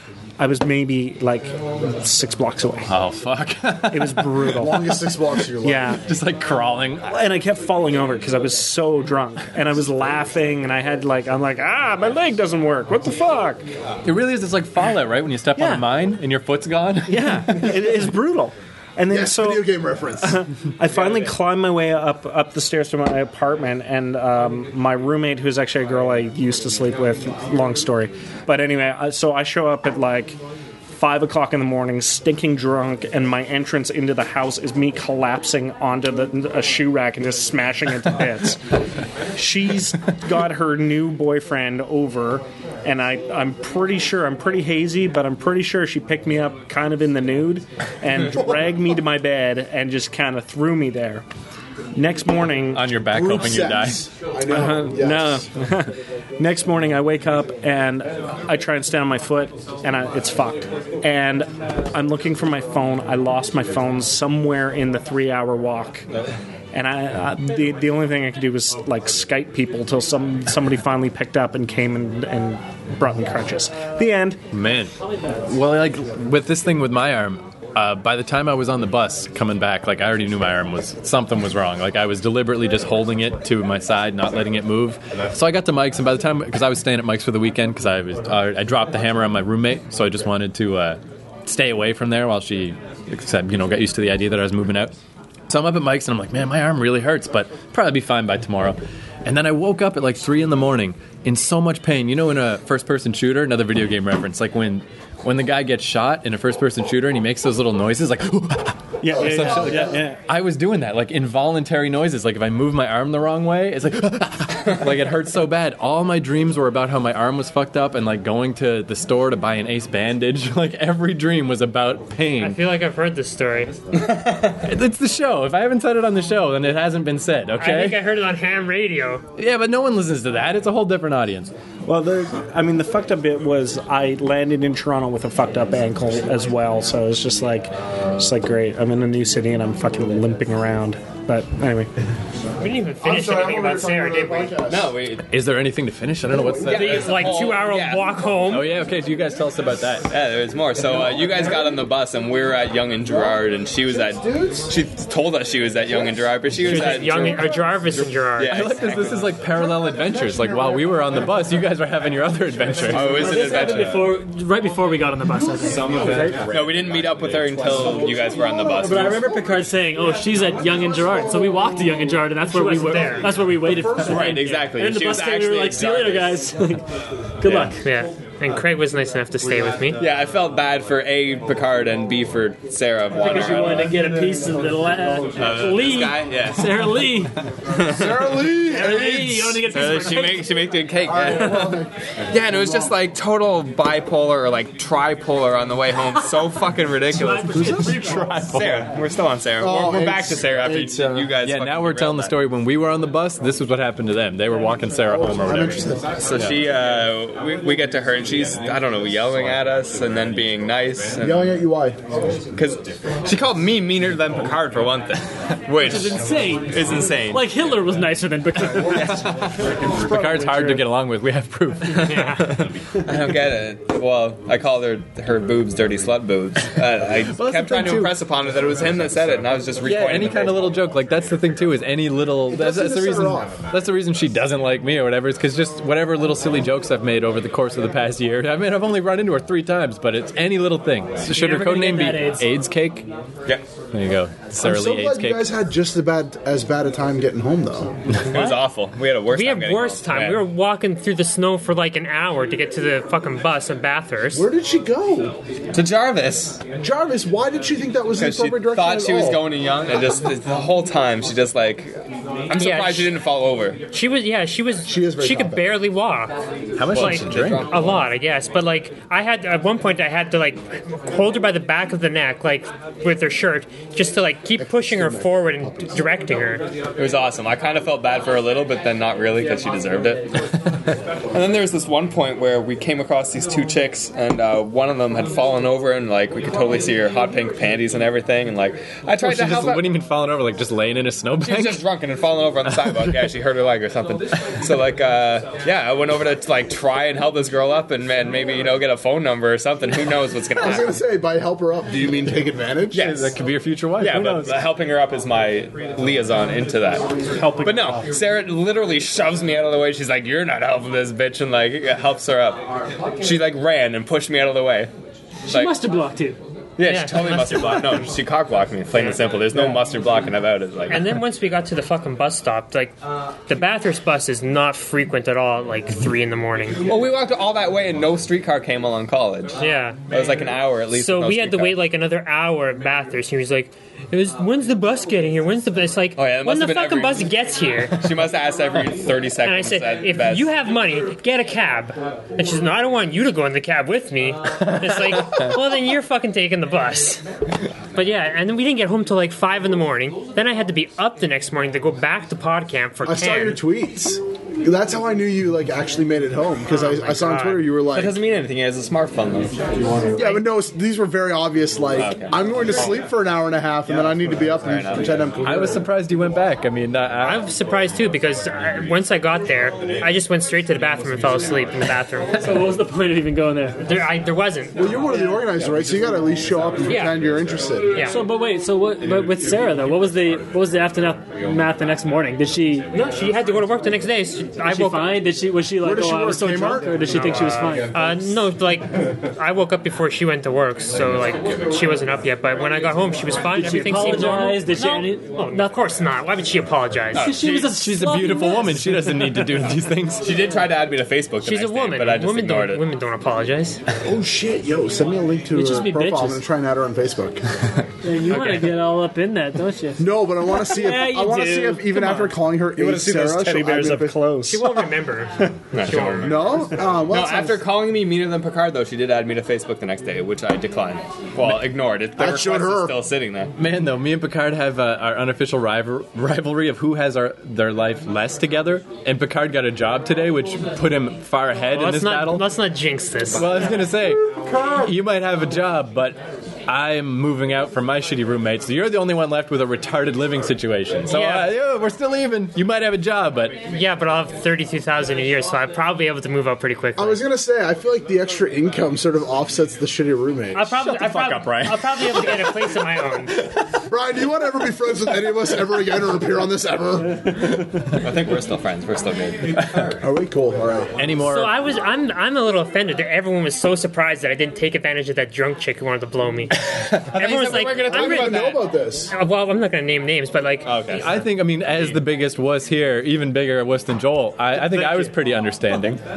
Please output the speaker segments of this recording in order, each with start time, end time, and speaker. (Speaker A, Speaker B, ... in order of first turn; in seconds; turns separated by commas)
Speaker A: 0.4-2.9, Speaker B: 2.9-4.6, Speaker A: 3.9-5.0, Speaker C: 4.5-6.0, Speaker A: 5.6-6.0, Speaker B: 6.0-7.1, Speaker A: 7.0-13.6, Speaker B: 14.0-17.9, Speaker A: 15.6-15.8, Speaker A: 17.1-30.4, Speaker C: 19.1-20.4, Speaker A: 30.9-38.6, Speaker A: 39.3-51.2, Speaker A: 51.9-52.9, Speaker B: 52.7-54.0, Speaker C: 53.1-55.5, Speaker A: 54.5-66.0, Speaker A: 66.7-74.4, Speaker B: 74.5-74.9, Speaker B: 75.5-94.9, Speaker B: 95.5-122.6, Speaker A: 109.0-110.2, Speaker C: 109.2-109.9, Speaker D: 122.4-123.7, Speaker E: 124.0-124.5, Speaker B: 124.6-128.1, Speaker D: 127.6-129.2, Speaker B: 129.4-131.5, Speaker A: 131.8-141.9, Speaker D: 142.6-144.6, Speaker C: 143.0-144.9, Speaker E: 144.7-145.3, Speaker B: 145.3-147.4, Speaker C: 146.3-146.8, Speaker D: 146.6-148.7, Speaker E: 146.7-148.2, Speaker B: 148.5-150.1, Speaker E: 150.1-159.3, Speaker C: 153.1-154.7, Speaker D: 156.6-158.7, Speaker B: 158.4-163.4, Speaker C: 159.7-160.8, Speaker E: 162.9-164.1, Speaker F: 163.1-166.4, Speaker E: 166.5-169.2, Speaker F: 168.7-176.8, Speaker D: 172.5-173.3, Speaker C: 173.7-174.3, Speaker E: 173.9-176.4, Speaker F: 177.4-177.8, Speaker E: 177.4-177.8, Speaker D: 177.8-180.0, Speaker E: 180.0-184.0, Speaker F: 183.1-187.3, Speaker E: 185.3-187.1, Speaker E: 187.7-188.5, Speaker C: 187.9-189.6, Speaker F: 188.6-190.5, Speaker E: 189.6-202.3, Speaker C: 191.0-192.9, Speaker F: 197.1-198.6, Speaker C: 197.5-198.1, Speaker C: 199.6-201.3, Speaker B: 201.4-206.5, Speaker C: 205.1-206.2, Speaker E: 206.2-211.5, Speaker C: 211.2-212.0, Speaker E: 212.5-217.5, Speaker F: 215.8-219.1, Speaker E: 218.7-219.5, Speaker A: 219.9-220.8, Speaker B: 220.0-222.4, Speaker D: 222.0-222.6, Speaker E: 222.1-230.8, Speaker B: 227.3-228.2, Speaker B: 229.8-243.1, Speaker C: 232.5-233.6, Speaker F: 241.3-242.5, Speaker B: 243.9-245.5, Speaker C: 244.6-247.9, Speaker E: 248.2-250.4, Speaker D: 249.3-254.5, Speaker C: 254.3-255.4, Speaker E: 255.7-256.6, Speaker C: 256.8-259.5, Speaker E: 258.2-262.0, Speaker E: 262.5-263.8, Speaker D: 262.5-263.1, Speaker D: 263.9-266.4, Speaker C: 264.8-265.7, Speaker B: 266.8-267.7, Speaker D: 266.9-276.6, Speaker E: 266.9-268.1, Speaker C: 274.6-276.1, Speaker E: 276.9-280.4, Speaker E: 281.3-289.9, Speaker B: 289.2-291.8, Speaker E: 291.4-301.0, Speaker B: 292.7-293.3, Speaker C: 300.5-303.1, Speaker E: 302.9-303.3, Speaker B: 302.9-304.3, Speaker E: 304.0-312.6, Speaker A: 304.1-304.5, Speaker A: 307.4-308.0, Speaker E: 313.2-314.9, Speaker F: 315.4-316.4, Speaker E: 315.5-315.8, Speaker E: 316.8-321.2, Speaker D: 316.8-318.1, Speaker D: 320.9-322.9, Speaker D: 323.5-326.8, Speaker E: 326.8-331.8, Speaker D: 329.6-330.1, Speaker D: 330.9-338.2, Speaker E: 336.2-337.3, Speaker E: 337.9-340.5, Speaker D: 339.4-347.2, Speaker B: 344.7-345.5, Speaker D: 347.9-353.6, Speaker C: 353.0-358.2, Speaker D: 356.7-357.8, Speaker E: 357.9-359.6, Speaker D: 360.1-360.4, Speaker C: 360.1-365.9, Speaker E: 362.0-363.0, Speaker E: 363.9-365.2, Speaker B: 365.4-367.5, Speaker D: 367.2-372.5, Speaker F: 372.4-373.8, Speaker D: 373.8-374.9, Speaker C: 374.7-377.9, Speaker D: 376.9-377.2, Speaker D: 377.9-378.2, Speaker F: 378.0-382.9, Speaker D: 382.9-385.2, Speaker F: 384.6-388.0, Speaker C: 385.8-387.1, Speaker D: 386.9-397.4, Speaker F: 393.5-395.5, Speaker E: 397.1-397.8, Speaker F: 397.1-399.3, Speaker B: 397.5-400.4, Speaker E: 400.2-402.8, Speaker D: 401.4-403.8, Speaker C: 404.0-407.4, Speaker F: 405.5-406.4, Speaker F: 408.0-412.3, Speaker E: 408.3-408.7, Speaker C: 410.0-414.3, Speaker A: 412.8-414.9, Speaker D: 414.5-416.6, Speaker E: 415.7-423.5, Speaker C: 416.2-417.6, Speaker C: 422.2-423.0, Speaker B: 423.6-432.5, Speaker D: 431.7-433.9, Speaker B: 433.3-443.6, Speaker D: 441.1-441.5, Speaker D: 443.7-447.2, Speaker C: 446.9-450.7, Speaker D: 450.5-453.3, Speaker B: 450.8-452.7, Speaker C: 453.9-457.2, Speaker E: 457.9-459.9, Speaker C: 460.0-460.9, Speaker B: 461.0-461.6, Speaker D: 461.2-470.9, Speaker E: 467.1-468.6, Speaker C: 467.8-469.1, Speaker E: 470.6-471.1, Speaker B: 470.9-476.0, Speaker E: 474.6-475.1